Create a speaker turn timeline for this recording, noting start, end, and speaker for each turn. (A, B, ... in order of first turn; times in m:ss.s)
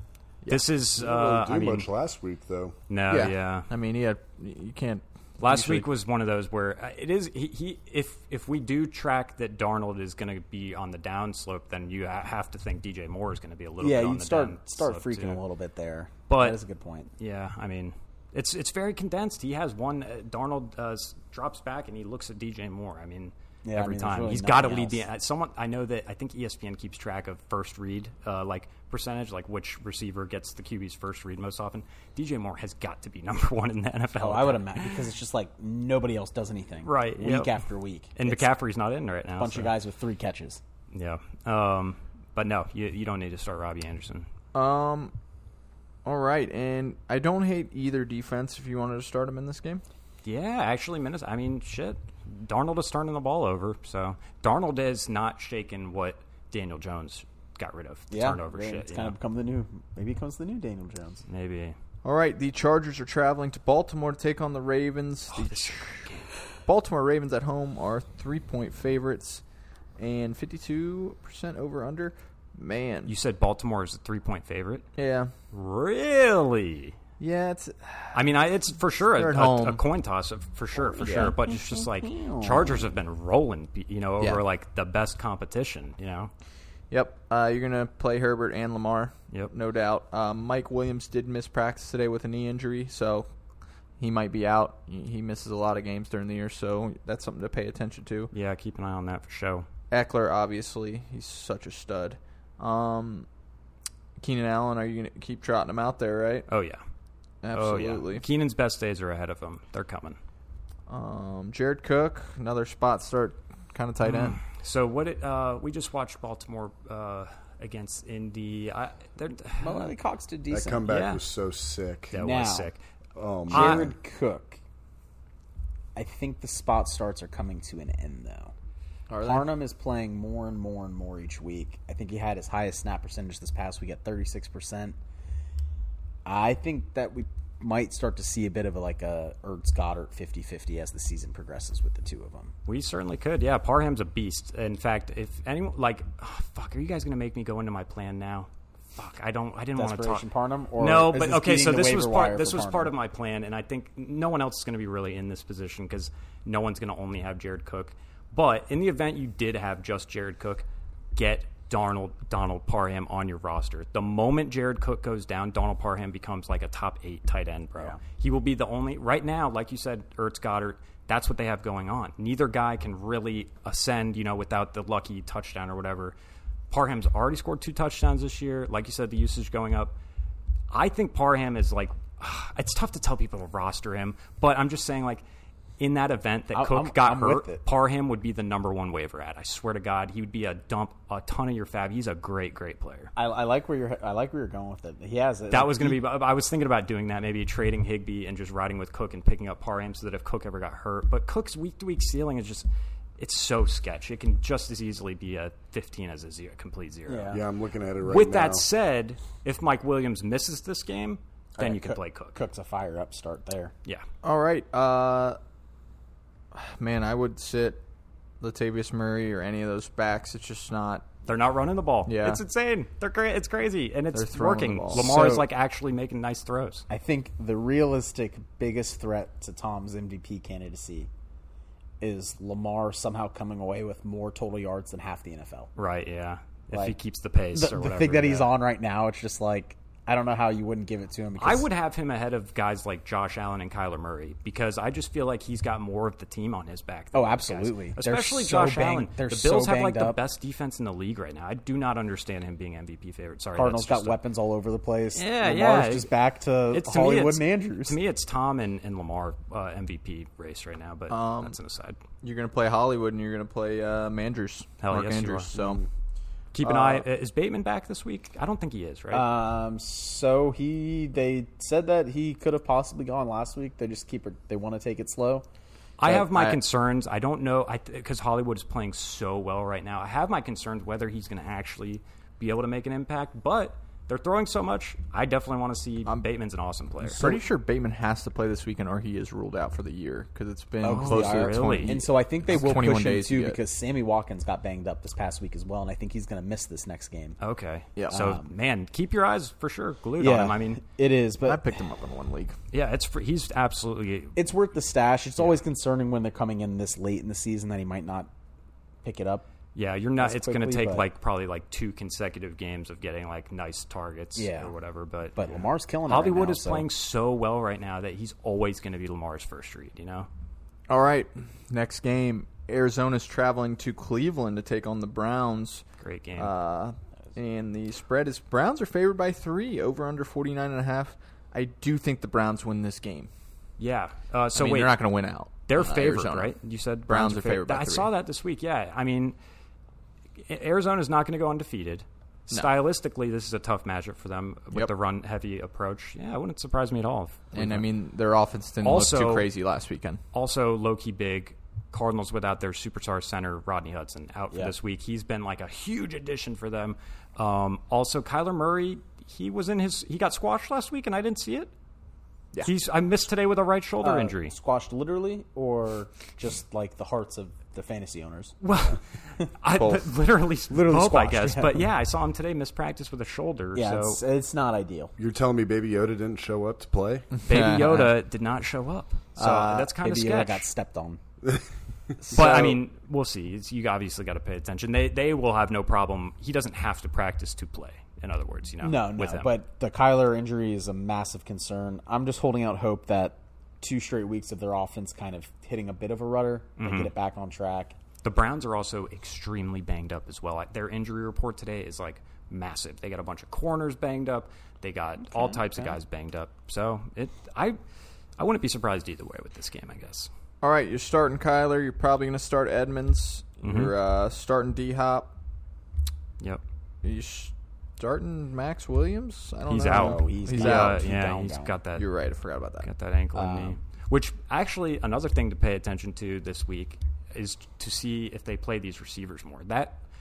0:00.5-0:01.9 A
0:01.0-0:02.8 B
0:02.9-0:03.7 A
0:03.1-0:05.9 C
0:05.4-0:15.4 A
0:13.8-0:17.1 D
0:16.3-0:16.6 A
0:17.2-0:34.9 A
0:23.6-0:25.0 D
0:34.2-0:38.5 D
0:36.8-0:37.5 A
0:38.2-0:39.7 A
0:39.4-0:40.6 D
0:40.9-0:44.3 A
0:44.5-0:45.1 C
0:46.0-0:49.8 C
0:50.2-0:59.2 A
0:58.1-1:01.2 D
1:01.3-1:01.8 A
1:02.0-1:06.1 C
1:05.3-1:06.3 A
1:06.6-1:09.4 C
1:10.0-1:13.1 C
1:13.0-1:14.9 A
1:15.0-1:15.3 C
1:15.5-1:17.0 A
1:17.2-1:18.2 C
1:18.1-1:26.3 A
1:19.1-1:19.8 C
1:21.0-1:22.5 C
1:21.0-1:21.4 D
1:22.2-1:22.5 D
1:26.9-1:33.3 C
1:34.0-1:38.3 C
1:38.3-1:39.7 A
1:39.9-1:43.3 C
1:44.2-1:46.5 C
1:46.5-1:46.8 A
1:47.4-1:48.3 C
1:47.5-1:50.2 A
1:50.9-1:54.4 C
1:54.1-1:59.9 A
1:59.6-2:00.8 D
2:00.5-2:02.2 B
2:00.9-2:01.2 A
2:02.1-2:02.8 A
2:02.1-2:02.7 D
2:03.2-2:04.0 B
2:03.5-2:04.6 D
2:03.5-2:03.9 A
2:06.0-2:08.5 D
2:09.1-2:09.5 C
2:09.2-2:15.0 D
2:16.2-2:22.5 D
2:22.7-2:30.3 A
2:29.8-2:32.9 D
2:30.8-2:56.2 A
2:56.7-3:00.0 A
3:00.7-3:05.2 A
3:05.8-3:13.1 A
3:06.5-3:07.6 D
3:13.2-3:16.0 D
3:15.5-3:22.7 A
3:23.2-3:27.4 A
3:27.1-3:27.4 D
3:27.3-3:28.6 B
3:28.0-3:32.4 A
3:31.6-3:33.7 D
3:34.2-3:35.4 C
3:36.5-3:37.8 C
3:38.4-3:41.1 C
3:41.3-3:46.8 A
3:42.1-3:42.4 C
3:44.1-3:45.2 C
3:44.9-3:45.4 D
3:46.9-3:51.1 D
3:52.0-3:55.7 D
3:55.8-3:58.6 A
3:57.5-4:01.7 D
4:01.4-4:14.2 A
4:07.1-4:10.2 D
4:13.6-4:18.0 D
4:15.1-4:16.1 A
4:16.7-4:22.0 A
4:21.1-4:21.6 C
4:22.2-4:25.9 C
4:24.8-4:25.5 A
4:26.5-4:29.3 A
4:26.6-4:27.1 C
4:29.1-4:35.5 D
4:36.0-4:47.3 A
4:36.0-4:36.6 C
4:47.0-4:53.6 C
4:50.8-4:57.4 D
4:50.9-4:52.0 A
4:57.4-5:00.8 A
4:58.0-4:58.2 C
4:58.1-4:58.5 D
5:00.2-5:01.7 D
5:01.4-5:02.6 C
5:02.7-5:04.4 A
5:04.4-5:08.3 D
5:09.0-5:09.5 D
5:09.8-5:20.3 A
5:10.2-5:11.0 D
5:14.4-5:14.7 D
5:15.4-5:16.9 D
5:20.9-5:25.9 C
5:26.0-5:26.5 A
5:26.4-5:33.3 C
5:33.8-5:35.0 A
5:34.5-5:36.6 C
5:35.7-5:39.4 A
5:37.1-5:38.1 C
5:40.5-5:47.8 A
5:47.5-5:50.2 C
5:48.8-5:49.5 A
5:50.3-6:01.7 A
6:02.6-6:04.6 A
6:04.0-6:08.6 D
6:08.6-6:14.2 A
6:09.7-6:10.1 C
6:10.7-6:11.9 D
6:13.8-6:15.1 D
6:15.2-6:17.3 B
6:17.3-6:18.1 C
6:17.5-6:20.6 A
6:19.4-6:19.9 C
6:19.9-6:21.2 D
6:22.2-6:22.8 C
6:22.3-6:29.5 A
6:22.4-6:22.7 D
6:28.8-6:38.0 D
6:36.8-6:37.1 A
6:38.2-6:47.8 A
6:48.4-6:50.3 A
6:50.6-6:55.3 C
6:53.6-6:53.9 A
6:57.0-7:01.1 C
6:59.7-7:02.1 A
6:59.8-7:01.8 D
7:02.0-7:03.7 C
7:02.8-7:10.0 A
7:03.4-7:03.7 D